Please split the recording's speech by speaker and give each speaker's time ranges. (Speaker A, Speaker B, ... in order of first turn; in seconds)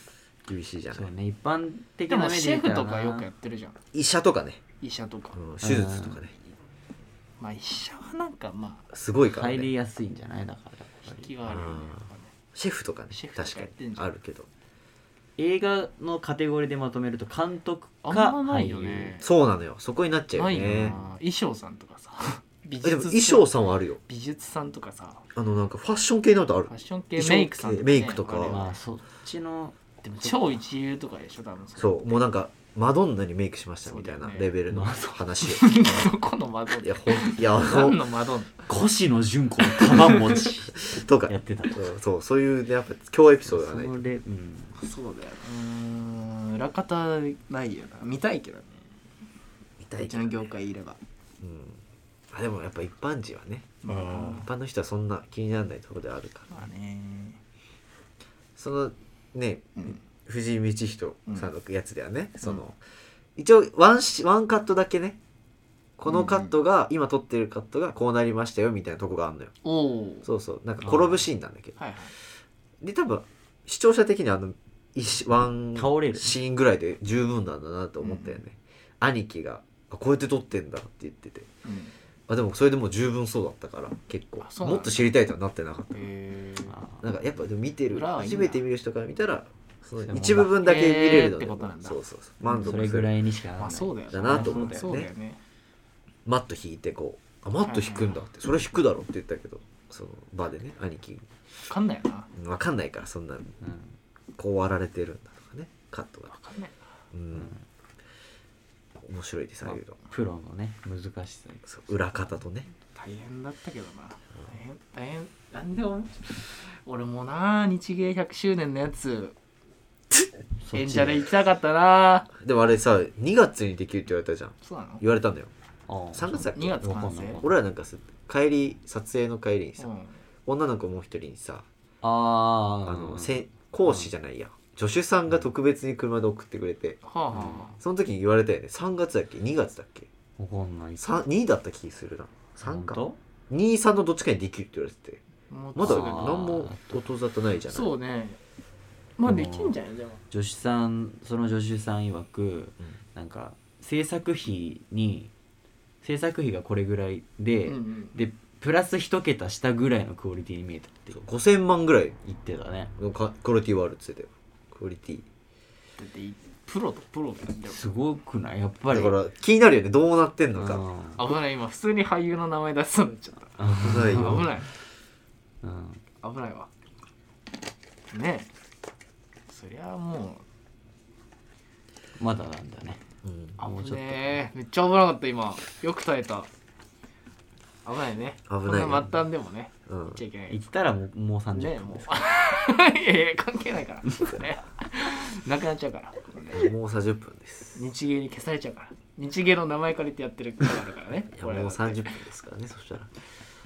Speaker A: 0.5-1.1, 3.9-4.6, 5.3-6.3, 8.9-9.7, 11.5-12.0, 12.5-14.5, 19.2-21.0, 22.8-24.0, 25.4-28.6, 31.8-36.1, 36.8-38.0, 40.8-44.0, 49.8-50.4, 51.4-51.8, 52.3-56.7, 58.6-62.8, 63.4-65.2, 66.0-69.5, 70.2-71.8, 72.8-81.5, 82.3-86.0, 87.0-93.1, 94.1-95.1, 96.3-101.3, 102.3-103.6, 104.4-106.3, 107.1-107.5, 109.0-110.0, 111.7-112.7, 122.4-125.5, 126.1-129.9, 130.5-131.7, 132.9-137.0, 137.8-140.1, 141.0-145.2, 145.8-147.9, 161.2-162.2, 163.0-165.3, 168.9-170.8, 173.7-174.5, 183.2-183.6, 188.5-189.1, 189.9-190.2, 196.5-197.8, 201.3-203.1
Speaker B: 0.9-3.3, 5.6-6.2, 9.2-11.3, 15.4-19.2, 20.6-21.0, 28.5-30.5, 34.7-35.3, 38.7-41.9, 43.5-44.8, 70.8-71.3, 75.8-76.4, 86.7-87.0, 90.0-90.6, 92.6-95.0, 103.6-104.0, 107.3-107.6, 109.7-111.7, 120.6-121.3, 125.9-127.5, 132.0-134.1, 140.4-141.1, 142.6-143.2, 145.8-147.0, 149.2-149.8, 150.3-155.3, 156.0-161.2, 162.3-162.9, 167.7-169.2, 170.6-171.2, 173.6-174.6, 175.6-176.0, 182.2-183.0, 183.6-184.4, 190.5-192.2
Speaker C: 2.1-3.8, 4.8-5.4, 7.4-8.9, 11.1-12.3, 13.1-14.1, 18.0-19.3, 20.3-23.5, 24.1-25.3, 26.7-28.8, 30.1-32.2, 33.9-34.5, 35.4-38.7, 39.9-40.4, 44.8-48.9, 50.0-51.0, 53.8-54.5, 56.5-57.4, 66.1-66.5, 69.6-70.3, 71.8-72.1, 78.0-78.4, 81.7-81.9, 84.4-85.1, 85.9-86.8, 87.9-88.6, 90.6-92.8, 93.6-95.4, 97.6-98.2, 101.7-102.3, 106.3-106.8, 112.9-119.4, 120.7-122.3, 124.6-125.0, 126.5-127.4, 129.8-130.2, 137.0-137.8, 145.5-146.4, 147.7-148.4, 149.2-150.2, 157.7-158.2, 166.0-167.9, 171.2-174.7, 176.2-176.7, 178.1-178.5, 179.5-180.4, 183.6-186.5, 187.8-190.6, 191.5-196.7, 197.8-202.2